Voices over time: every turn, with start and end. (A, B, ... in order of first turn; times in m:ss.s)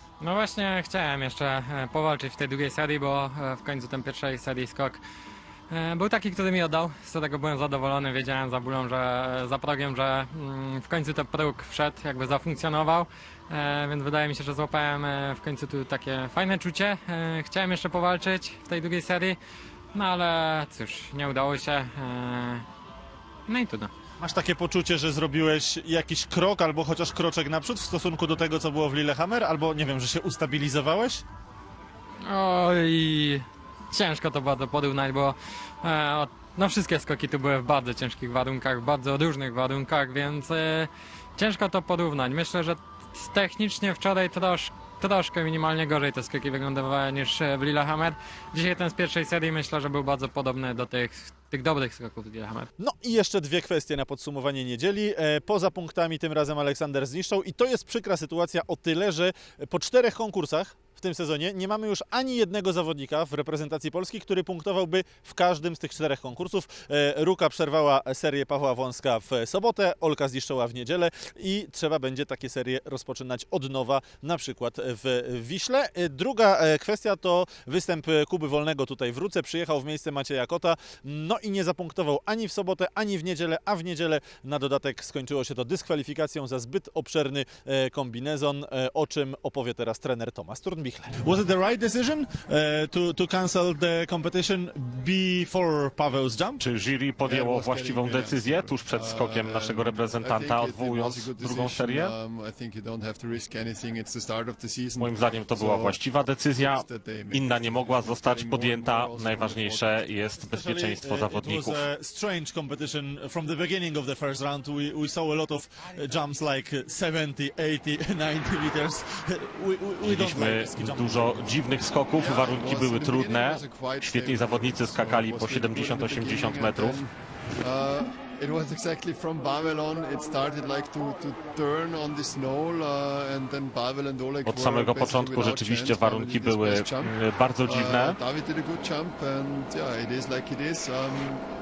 0:00.2-0:05.0 A
0:05.7-0:19.4 A
0:19.9-0:22.6 A
0:23.5-0:23.9 A
0:24.2-0:31.2 B
0:32.2-0:52.7 A
0:52.8-1:36.6 B
1:36.6-1:42.1 C
1:37.2-1:50.1 D
1:45.0-1:51.8 C
1:50.5-2:01.4 B
2:00.0-2:07.0 C
2:02.2-2:21.4 D
2:14.4-2:18.2 C